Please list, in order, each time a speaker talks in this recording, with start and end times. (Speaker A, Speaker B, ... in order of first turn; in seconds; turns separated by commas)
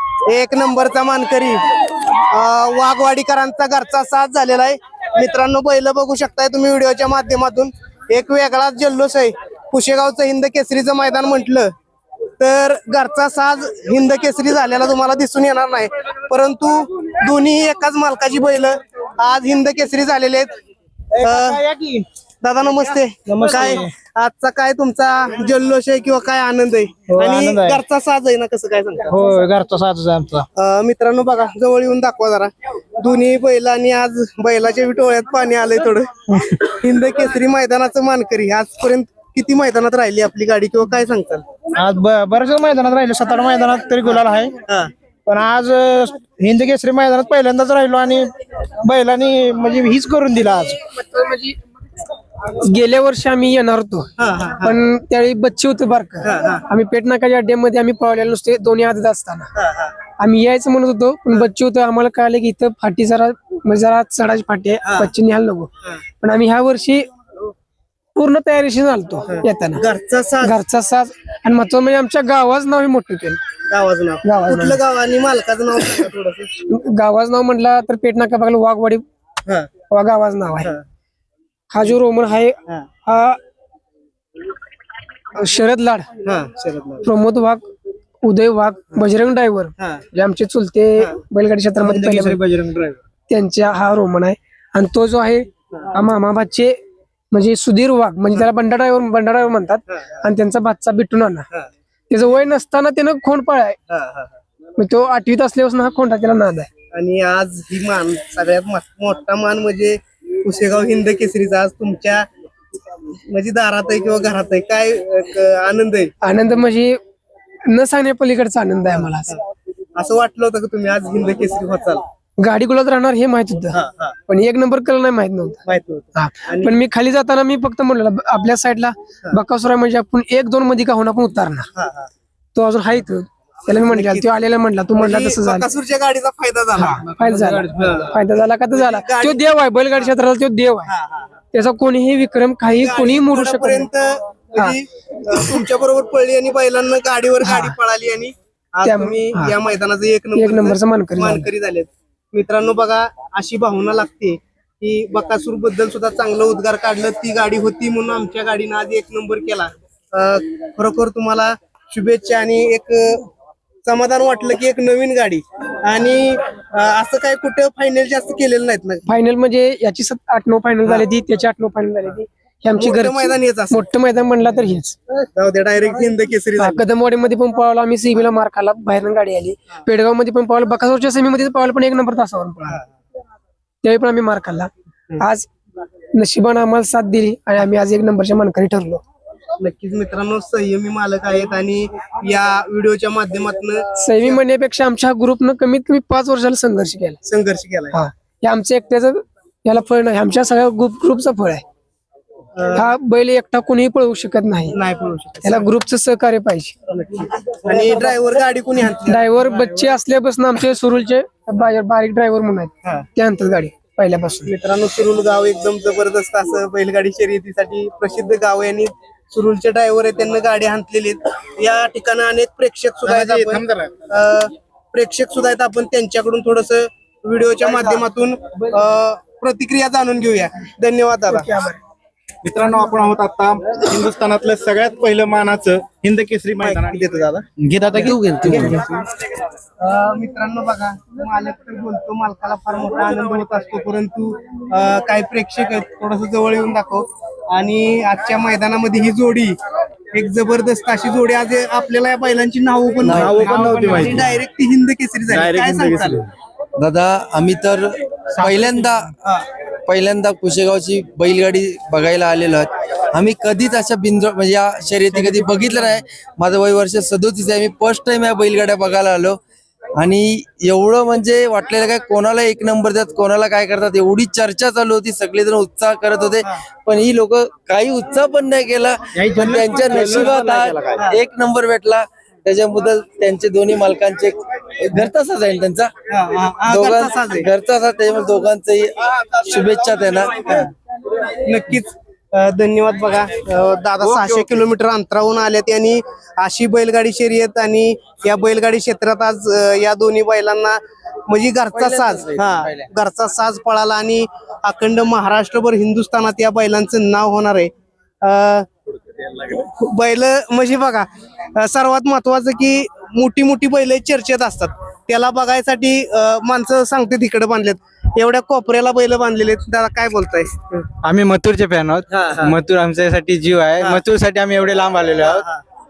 Speaker A: 0.2-11.7, Speaker A: 12.4-20.5, Speaker B: 21.1-22.1, Speaker A: 21.2-21.6, Speaker A: 22.4-29.1, Speaker B: 23.2-23.9, Speaker B: 27.1-27.8, Speaker B: 29.1-30.5, Speaker A: 30.6-41.4, Speaker B: 41.7-44.6, Speaker A: 44.0-44.9, Speaker B: 45.2-50.9, Speaker C: 50.9-51.6, Speaker C: 52.4-59.5, Speaker A: 54.2-54.8, Speaker A: 56.2-56.6, Speaker A: 59.5-60.0, Speaker C: 60.1-67.1, Speaker A: 64.8-65.1, Speaker C: 68.1-69.8, Speaker A: 69.3-70.6, Speaker C: 70.4-73.4, Speaker A: 73.7-76.5, Speaker C: 74.2-74.8, Speaker C: 76.6-79.0, Speaker C: 79.9-80.7, Speaker C: 81.7-83.4, Speaker C: 85.3-86.1, Speaker A: 86.2-87.1, Speaker C: 87.0-87.7, Speaker C: 88.2-92.4, Speaker A: 89.8-90.0, Speaker D: 91.8-93.0, Speaker C: 93.3-101.5, Speaker C: 102.1-103.8, Speaker A: 103.9-104.4, Speaker C: 104.8-106.7, Speaker A: 106.9-112.3, Speaker A: 113.3-116.1, Speaker C: 116.2-117.0, Speaker C: 117.6-119.3, Speaker A: 118.9-119.4, Speaker A: 120.0-122.0, Speaker C: 122.4-125.6, Speaker A: 123.7-124.2, Speaker A: 125.7-126.8, Speaker C: 126.1-131.7, Speaker A: 131.7-132.1, Speaker C: 132.5-135.7, Speaker A: 133.7-134.3, Speaker A: 134.9-137.0, Speaker C: 136.7-140.9, Speaker A: 137.7-138.2, Speaker A: 138.7-140.1, Speaker A: 140.8-141.4, Speaker C: 141.5-143.9, Speaker A: 142.7-163.3, Speaker C: 145.3-145.6, Speaker C: 147.4-147.7, Speaker C: 148.8-149.5, Speaker C: 150.3-151.5, Speaker A: 163.8-169.1, Speaker C: 169.1-174.9, Speaker A: 172.8-173.8, Speaker A: 175.2-176.8, Speaker C: 176.6-182.8, Speaker C: 183.8-185.5, Speaker C: 186.1-189.0, Speaker A: 189.6-194.4, Speaker C: 194.0-197.2, Speaker A: 197.2-198.0, Speaker C: 197.9-201.6, Speaker A: 202.6-202.9, Speaker C: 202.7-204.8, Speaker A: 204.7-205.7, Speaker C: 205.4-206.7, Speaker A: 206.9-209.3, Speaker C: 209.0-214.5, Speaker A: 214.4-231.6, Speaker E: 223.1-223.9, Speaker C: 231.3-231.8, Speaker E: 232.4-237.1, Speaker A: 236.6-237.4, Speaker D: 237.6-238.8, Speaker E: 237.7-238.1, Speaker F: 238.0-238.8, Speaker A: 238.1-238.9, Speaker A: 239.8-249.6, Speaker A: 250.1-256.2, Speaker F: 253.0-253.5, Speaker E: 253.3-254.3, Speaker B: 255.4-256.0, Speaker F: 256.8-259.1, Speaker F: 259.9-269.4, Speaker F: 269.9-285.9, Speaker D: 279.3-280.8, Speaker A: 286.1-287.5, Speaker F: 286.7-290.5, Speaker A: 291.3-307.7, Speaker F: 301.8-302.3, Speaker A: 308.2-308.7, Speaker A: 309.2-320.8, Speaker D: 321.0-325.4, Speaker A: 322.1-322.6, Speaker A: 325.3-325.6